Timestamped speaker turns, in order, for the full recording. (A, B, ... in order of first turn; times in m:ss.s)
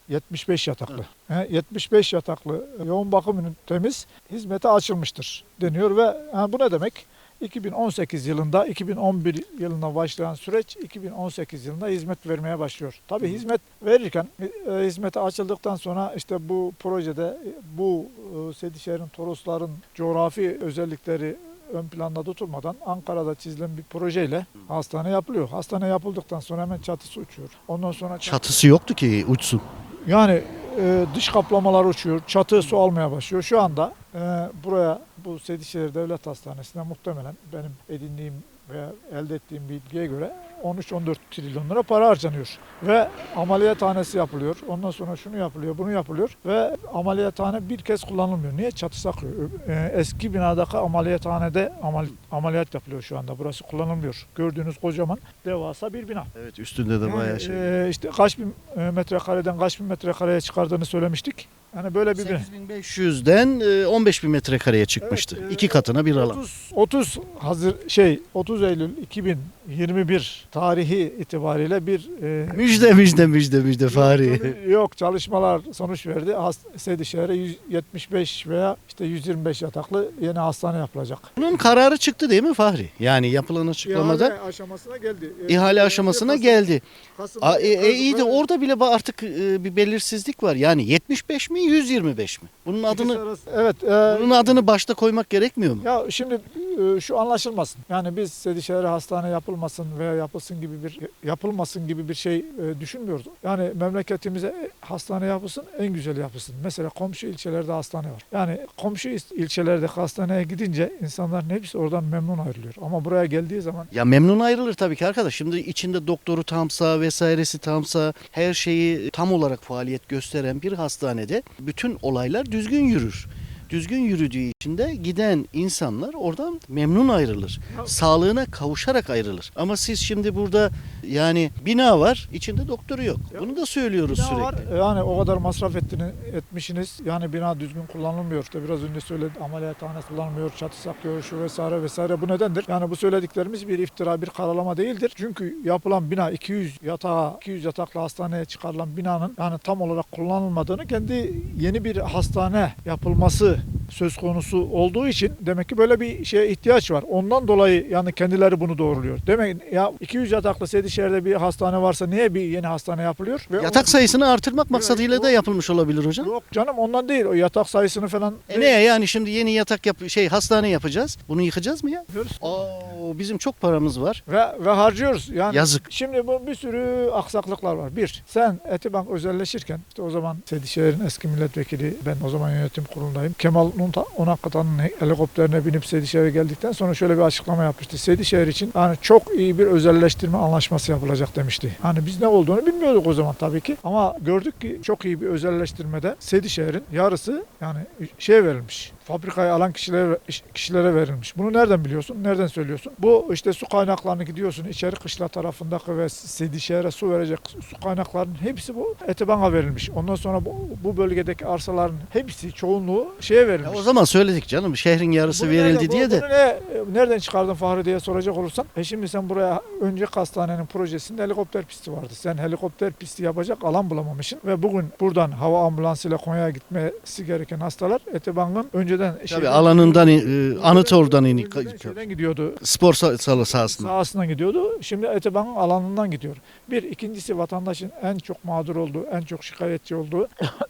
0:00.1-0:28.5 A
0:28.2-0:29.6 B
0:30.1-0:56.3 A
0:56.3-0:57.7 B
0:57.0-1:02.5 A
1:02.1-1:06.4 B
1:05.0-1:12.8 A
1:12.5-1:14.5 B
1:13.9-1:21.4 A
1:21.4-1:24.3 B
1:23.8-1:28.4 A
1:25.5-1:26.8 B
1:27.4-1:33.2 B
1:32.9-1:34.6 A
1:34.0-1:35.8 B
1:35.8-1:53.9 A
1:53.9-2:14.7 B
2:13.3-2:43.9 A
2:43.6-2:46.3 B
2:44.7-2:45.4 A
2:46.2-2:48.8 A
2:48.5-2:54.2 B
2:52.1-2:52.6 A
2:54.3-3:33.8 A
2:55.5-2:55.8 B
3:33.6-3:36.2 B
3:35.3-3:52.6 A
3:49.3-3:52.0 B
3:52.6-3:53.9 B
3:53.4-4:00.3 A